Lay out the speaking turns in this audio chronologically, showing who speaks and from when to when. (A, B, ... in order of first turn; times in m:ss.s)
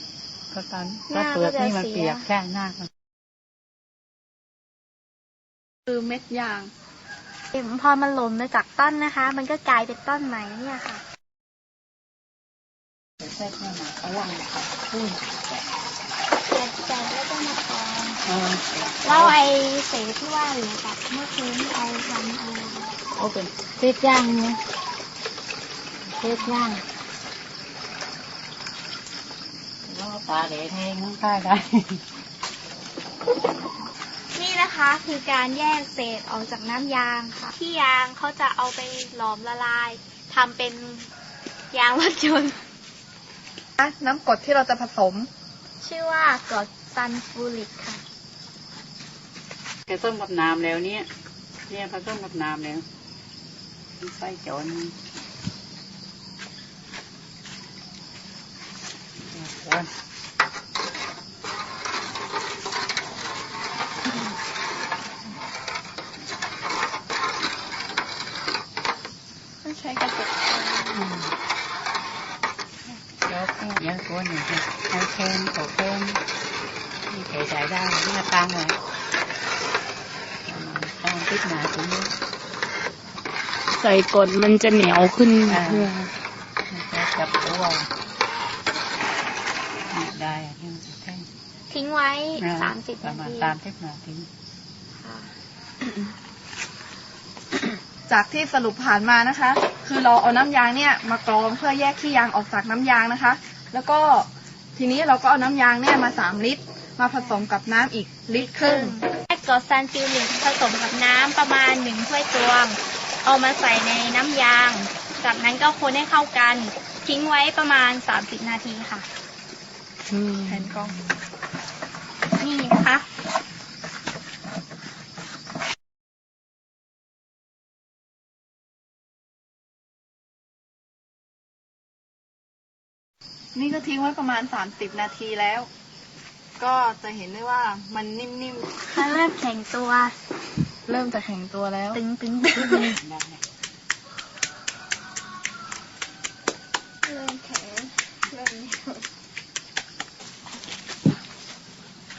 0:00.5-0:02.9 A
0:01.1-0:02.3 B
0:05.9-0:06.7 C
0:07.5-0:11.0 B
0:13.2-0:15.2 A
0:16.5-0:18.2 B
0:18.2-0:19.4 A
0:19.0-0:22.9 B
0:23.2-0:24.6 A
0:26.1-0:26.8 A
0:29.8-0:32.0 A
0:34.3-0:41.1 B
0:41.7-0:42.6 B
0:43.8-0:45.3 C
0:45.8-0:48.0 B
0:49.9-0:51.1 A
0:51.7-0:52.8 A
0:54.0-0:55.0 A
0:59.3-0:59.9 A
1:09.6-1:11.0 D
1:10.9-1:11.3 A
1:12.9-1:16.2 A
1:17.1-1:18.8 A
1:20.5-1:22.1 A
1:23.8-1:26.0 E
1:25.5-1:26.1 A
1:26.7-1:27.9 A
1:29.9-1:31.3 A
1:31.7-1:33.6 B
1:32.4-1:34.3 A
1:35.0-1:35.3 B
1:38.1-1:49.0 C
1:47.2-1:47.4 B
1:48.4-1:59.1 B
2:00.1-2:01.0 E
2:00.5-2:01.0 C
2:02.4-2:03.1 B
2:13.6-2:15.7 C
2:16.6-2:18.7 C
2:18.9-2:20.2 B
2:20.9-2:22.0 C
2:21.9-2:23.0 B
2:22.6-2:23.4 A
2:27.1-2:28.1 D
2:28.3-2:28.9 C